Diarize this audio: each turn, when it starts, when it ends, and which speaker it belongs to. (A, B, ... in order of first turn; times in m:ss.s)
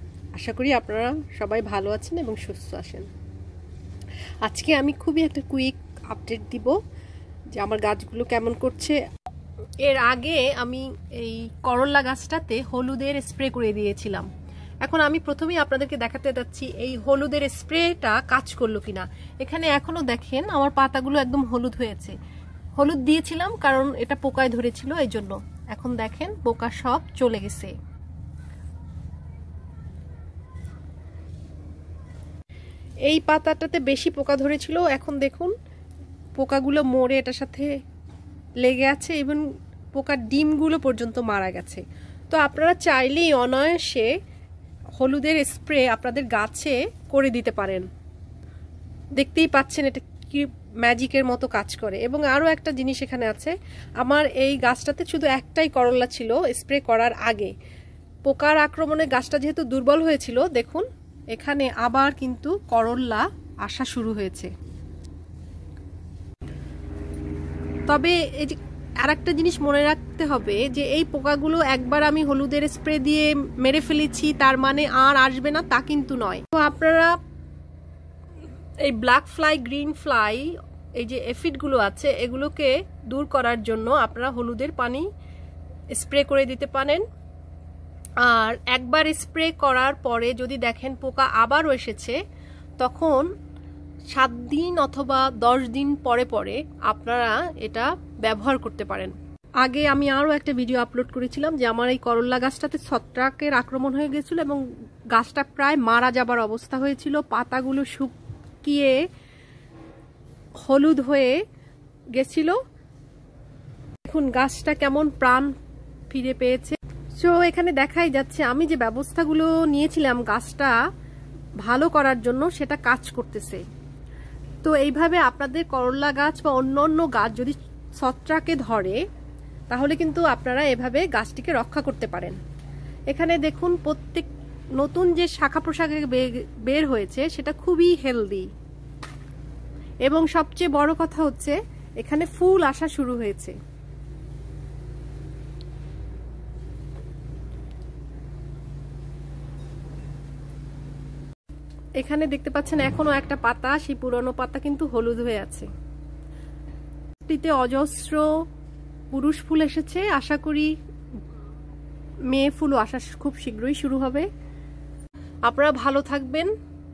0:00.4-0:03.1 A
0:04.4-0:06.8 A
0:07.6-0:09.0 A
0:09.8-0:14.3 A
0:14.8-0:22.2 A
0:22.8-0:27.7 A
0:33.1-0:35.5 A
0:36.4-0:37.7 A
0:38.6-0:44.1 A
0:45.0-0:47.9 A
0:49.2-0:57.5 A
0:58.2-1:04.5 A
1:07.9-1:17.1 A
1:18.9-1:25.1 A
1:25.9-1:27.0 A
1:28.2-1:32.2 A
1:32.8-1:33.3 A
1:34.1-1:44.6 A
1:45.1-1:49.0 A
1:50.6-1:51.4 A
1:52.2-1:52.6 A
1:54.1-1:55.5 A
1:56.1-2:00.8 A
2:01.6-2:03.6 A
2:04.6-2:09.0 A
2:09.7-2:12.4 A
2:13.1-2:14.3 A
2:14.8-2:18.5 A
2:20.1-2:23.6 A
2:32.0-2:35.7 A
2:37.3-2:38.3 A
2:39.1-2:40.7 A
2:42.3-2:44.3 A
2:45.5-2:46.5 A